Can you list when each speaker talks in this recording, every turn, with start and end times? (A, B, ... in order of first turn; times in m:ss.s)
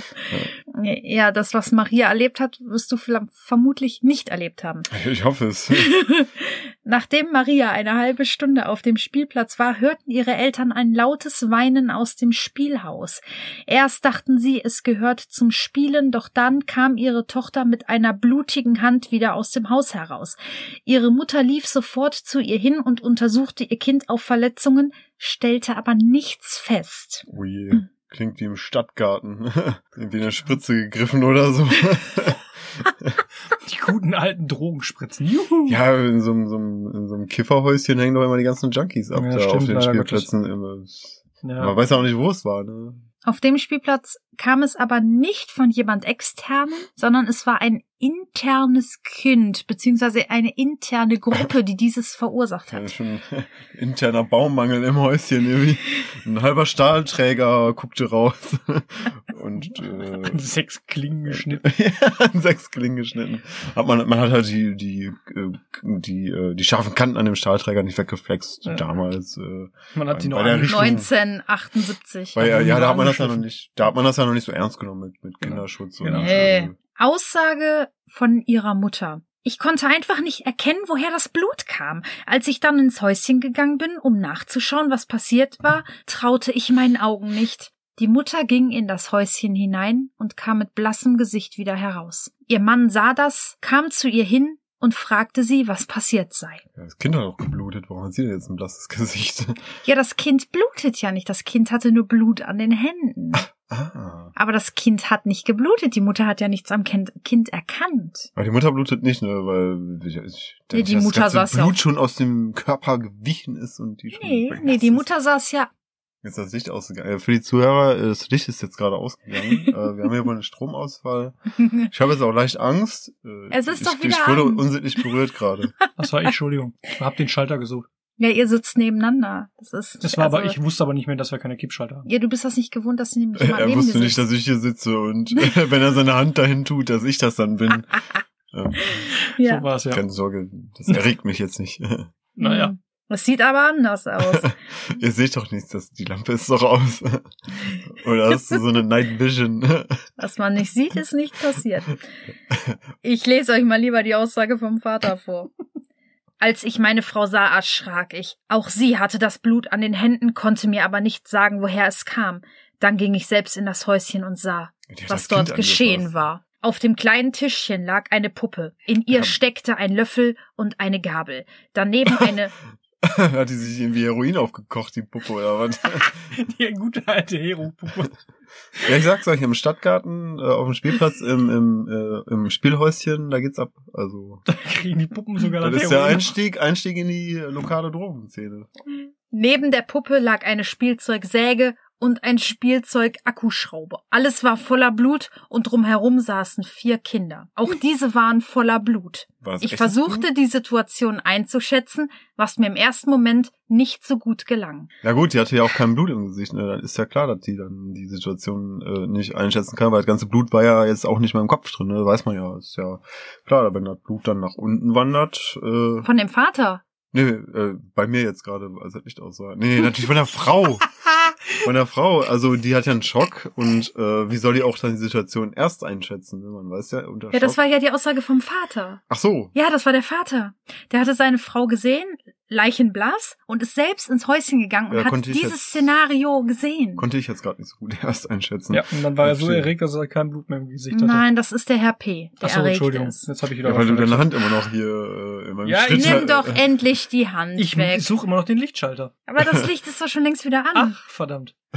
0:00.7-0:04.9 A
0:04.9-0:06.0 B
0:05.7-0:27.3 A
0:27.3-0:33.2 B
0:33.6-0:35.8 C
0:35.7-0:43.0 B
0:39.1-0:40.3 C
0:41.4-0:41.8 C
0:43.2-0:52.9 A
0:52.7-1:00.4 B
1:00.0-1:01.6 C
1:01.3-1:11.1 B
1:09.9-1:11.0 C
1:10.7-1:12.9 A
1:12.3-1:16.7 B
1:12.4-1:13.4 C
1:15.4-1:16.4 C
1:16.1-1:36.6 A
1:36.8-1:39.6 B
1:39.8-1:43.5 A
1:43.3-1:44.3 B
1:44.3-1:48.3 A
1:48.4-1:55.1 B
1:50.7-1:51.8 A
1:54.1-1:55.7 A
1:56.2-2:05.7 B
2:03.5-2:04.7 A
2:06.0-2:07.8 C
2:08.2-2:10.6 A
2:10.0-2:12.1 C
2:12.0-2:14.2 A
2:13.4-2:19.0 B
2:18.8-2:19.6 A
2:19.3-2:20.0 C
2:19.9-2:22.1 B
2:22.4-2:22.7 C
2:22.4-2:24.5 A
2:24.2-2:30.0 B
2:30.2-2:32.0 A
2:33.0-2:35.5 A
2:36.4-2:52.5 A
2:44.9-2:46.1 B
2:53.0-2:56.1 B
2:56.0-2:58.1 C
2:58.8-3:04.4 B
3:04.5-3:06.3 C
3:05.6-3:08.7 B
3:09.3-3:24.9 A
3:19.4-3:20.3 B
3:25.0-3:36.1 B
3:36.0-3:36.8 A
3:37.1-3:40.9 B
3:41.6-3:47.6 B
3:47.3-3:49.0 A
3:49.1-3:49.5 B
3:49.5-3:57.0 A
3:54.9-3:55.9 B
3:57.0-3:59.7 B
3:58.7-4:01.2 C
4:00.9-4:03.2 A
4:02.4-4:04.3 C
4:03.6-4:06.6 B
4:05.6-4:06.2 C
4:05.9-4:08.1 A
4:07.6-4:09.1 C
4:09.3-4:11.0 A
4:09.4-4:09.7 B
4:10.7-4:11.5 C